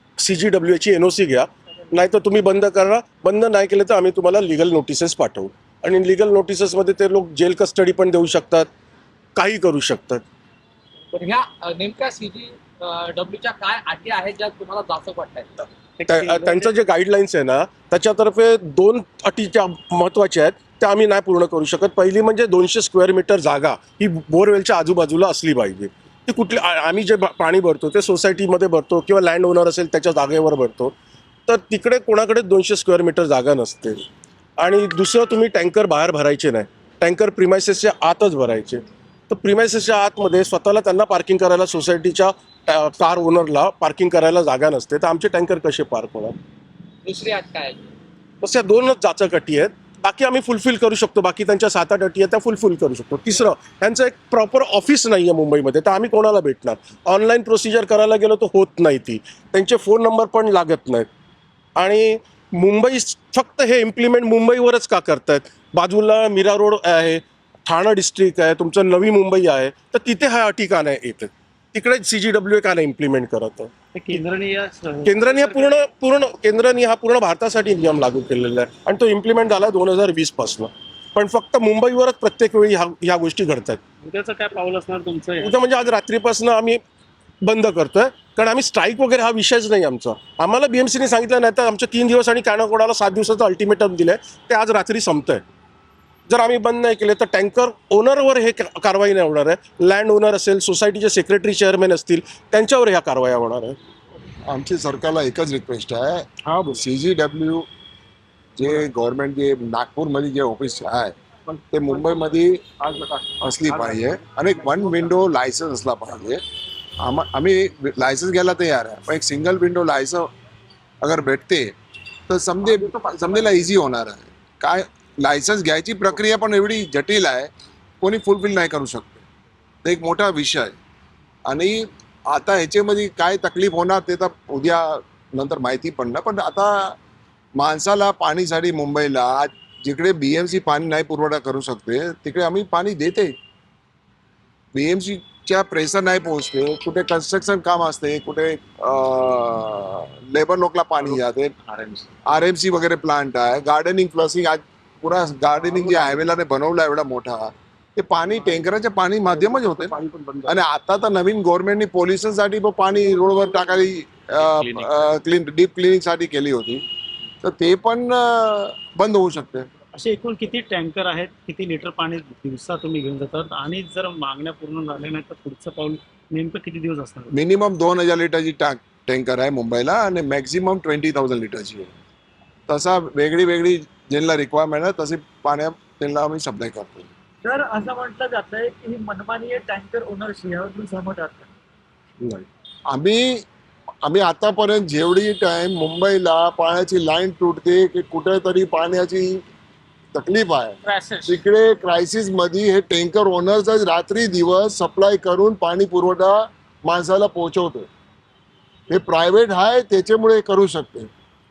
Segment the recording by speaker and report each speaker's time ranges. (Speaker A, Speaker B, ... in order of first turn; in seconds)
Speaker A: 0.2-8.7, 9.3-10.2, 16.1-30.9, 31.5-34.1, 34.6-46.4, 48.4-61.1, 61.8-73.7, 75.0-83.8, 85.4-86.8, 87.4-95.4, 96.3-103.8, 106.4-106.8
Speaker B: 11.1-15.6, 47.0-47.9
Speaker C: 16.0-16.6, 73.9-75.8, 84.0-85.6, 112.9-113.2, 159.5-160.5, 169.9-177.3, 200.8-201.4
Speaker D: 104.5-107.7, 108.6-111.1, 111.7-112.7, 113.4-116.4, 117.0-120.3, 121.0-121.7, 122.3-127.5, 128.0-129.2, 129.8-130.8, 131.4-137.0, 137.6-143.3, 144.7-151.5, 152.2-166.8, 167.4-169.7, 177.3-181.9, 182.7-187.1, 192.9-193.4, 194.0-199.4, 200.1-207.9, 208.9-211.1
Speaker E: 187.4-191.5